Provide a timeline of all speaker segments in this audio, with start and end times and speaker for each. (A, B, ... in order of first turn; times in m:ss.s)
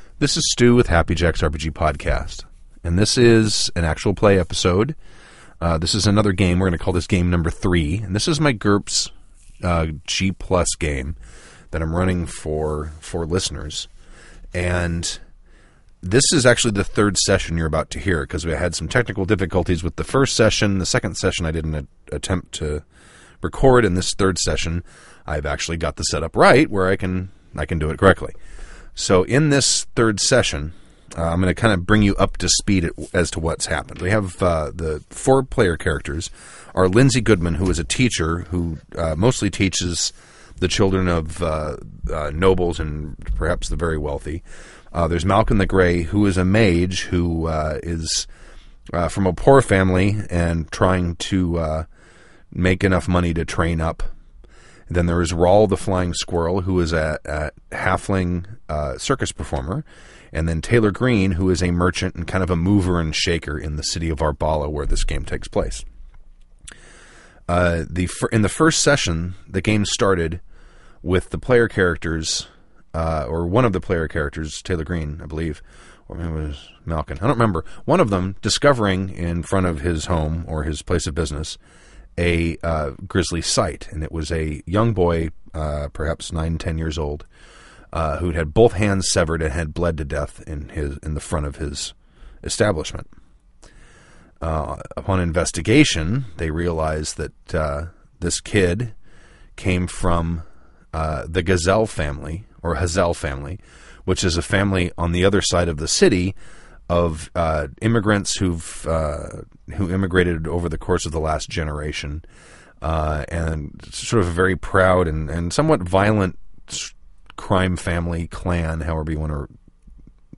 0:00.2-0:05.0 A
0:05.6-0:11.2 A
0:11.7-0:13.9 A
0:14.5-0:15.2 A
0:16.0-0:22.8 A
0:23.4-0:28.3 A
0:29.0-0:48.3 A
0:48.9-0:51.8 A
0:52.5-0:54.0 A
0:54.9-1:05.8 A
1:07.5-1:10.4 A
1:11.0-1:21.6 A
1:22.2-1:27.3 A
1:27.9-1:33.1 A
1:34.4-1:38.9 A
1:39.6-1:46.4 A
1:46.9-1:52.2 A
1:52.8-1:59.5 A